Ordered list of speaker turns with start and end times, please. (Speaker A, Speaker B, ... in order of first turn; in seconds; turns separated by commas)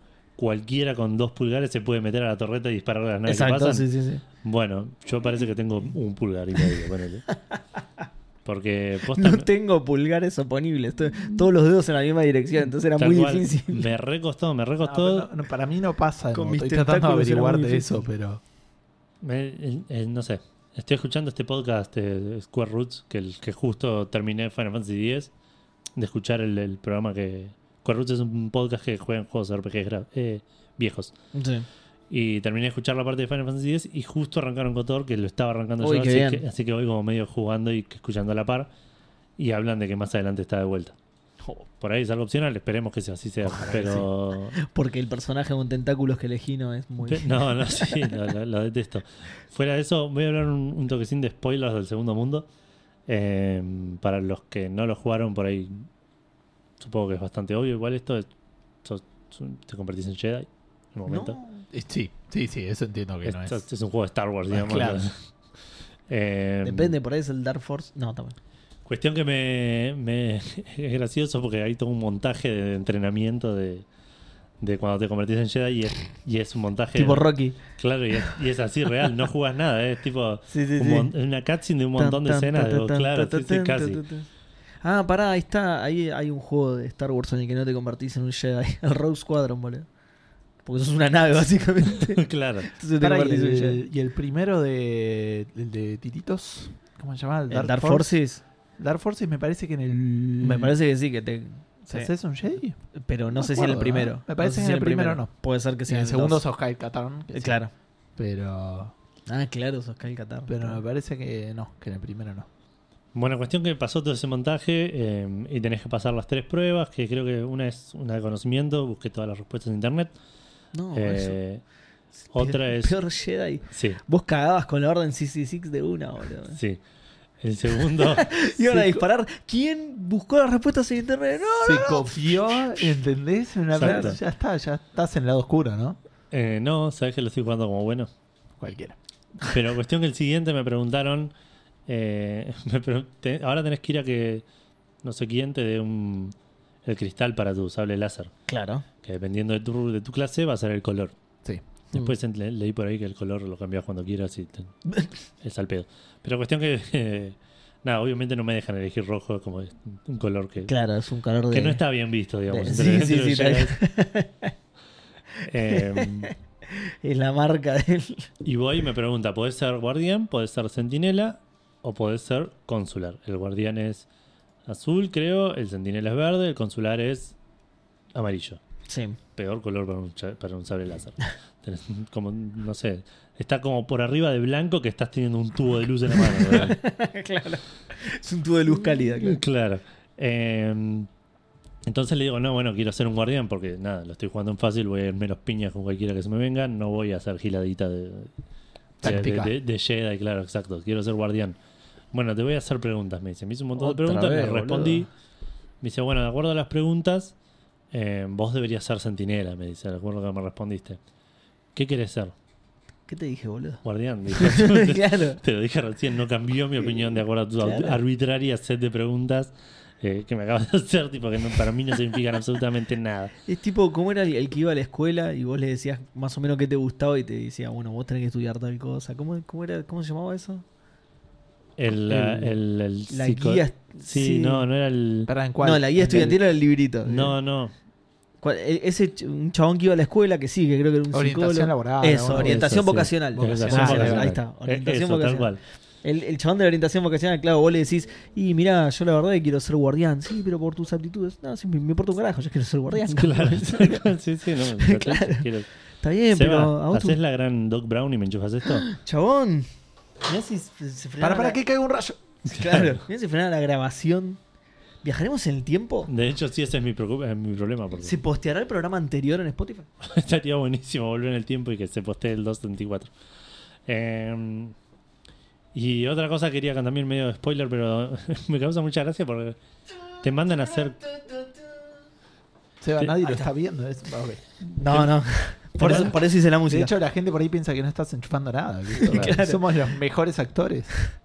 Speaker A: 0.4-3.9, Speaker B: 3.3-4.2, Speaker A: 4.4-7.3, Speaker A: 8.4-9.5, Speaker B: 9.1-13.9, Speaker A: 13.0-15.3, Speaker C: 14.8-18.4, Speaker B: 16.3-17.9, Speaker A: 19.2-25.3, Speaker A: 26.0-31.1, Speaker B: 31.3-31.7, Speaker A: 32.1-38.7, Speaker B: 35.8-36.4, Speaker A: 39.4-41.0, Speaker A: 41.8-44.6, Speaker C: 43.4-44.1, Speaker B: 44.6-48.2, Speaker A: 47.0-52.5, Speaker A: 53.1-55.9, Speaker A: 56.8-58.3, Speaker A: 58.8-61.4, Speaker B: 61.1-61.6, Speaker C: 61.7-63.6, Speaker A: 63.2-65.1, Speaker C: 64.5-65.0, Speaker A: 66.1-66.9, Speaker B: 66.6-68.4, Speaker A: 68.9-73.8, Speaker A: 74.6-84.0, Speaker B: 77.0-77.6, Speaker B: 80.5-81.1, Speaker B: 82.0-84.3, Speaker B: 84.8-89.9, Speaker B: 90.7-93.8, Speaker A: 92.0-92.7, Speaker C: 93.0-98.1, Speaker B: 97.5-98.4, Speaker C: 98.8-100.8, Speaker B: 100.4-102.1, Speaker C: 101.9-102.8, Speaker B: 103.0-106.5, Speaker C: 103.3-105.3, Speaker C: 105.9-107.6, Speaker B: 107.3-107.7, Speaker C: 108.2-108.9, Speaker B: 109.3-110.8, Speaker C: 110.5-112.5, Speaker A: 113.1-120.1, Speaker B: 120.7-121.4, Speaker A: 120.9-121.6, Speaker A: 122.3-123.0, Speaker B: 122.3-126.6, Speaker A: 123.7-124.0, Speaker A: 127.4-128.3, Speaker B: 127.9-132.5, Speaker C: 128.7-129.0, Speaker C: 131.6-136.0, Speaker A: 133.8-134.2, Speaker B: 133.8-134.2, Speaker A: 136.3-138.1, Speaker C: 138.6-139.0, Speaker A: 139.4-141.3, Speaker A: 141.9-144.4, Speaker A: 145.0-148.3, Speaker B: 148.5-148.8, Speaker A: 149.0-151.1, Speaker A: 151.9-154.7, Speaker A: 155.4-160.7, Speaker B: 160.7-161.8, Speaker A: 161.5-163.8, Speaker B: 162.5-164.5, Speaker A: 165.4-166.3, Speaker B: 165.7-168.3, Speaker A: 168.4-174.1, Speaker A: 174.7-177.3, Speaker A: 178.2-178.6, Speaker B: 178.9-179.2, Speaker A: 179.4-186.8, Speaker B: 186.2-189.4, Speaker A: 188.9-191.1, Speaker A: 191.9-198.3, Speaker C: 199.0-199.5, Speaker A: 199.0-201.6, Speaker A: 202.1-205.1, Speaker B: 203.8-205.1, Speaker A: 205.8-207.3, Speaker A: 207.9-211.0, Speaker A: 211.8-212.3, Speaker B: 213.1-213.8, Speaker A: 213.8-223.3, Speaker B: 214.3-215.4, Speaker B: 217.6-218.0, Speaker B: 223.5-230.6, Speaker A: 231.8-235.3, Speaker C: 232.1-232.5, Speaker B: 233.1-234.6, Speaker C: 235.3-236.4, Speaker B: 235.6-237.4, Speaker A: 236.1-236.4, Speaker A: 237.0-237.7, Speaker B: 238.4-245.5, Speaker C: 241.1-242.8, Speaker A: 242.3-245.6, Speaker C: 243.3-244.3, Speaker B: 246.0-254.1, Speaker A: 253.0-255.7, Speaker B: 254.8-255.5, Speaker B: 256.0-257.2, Speaker A: 256.3-258.9, Speaker B: 258.8-259.7, Speaker B: 260.3-261.6, Speaker C: 261.2-262.2, Speaker B: 262.5-264.4, Speaker A: 262.5-263.0, Speaker B: 265.0-266.1, Speaker A: 266.1-268.2, Speaker B: 268.0-269.9, Speaker A: 270.0-273.1, Speaker A: 273.9-274.8, Speaker A: 275.7-279.6, Speaker A: 280.2-281.1, Speaker C: 282.8-284.4, Speaker B: 284.8-286.9, Speaker C: 285.8-290.9, Speaker A: 285.8-286.1, Speaker B: 288.9-289.9, Speaker A: 289.1-289.4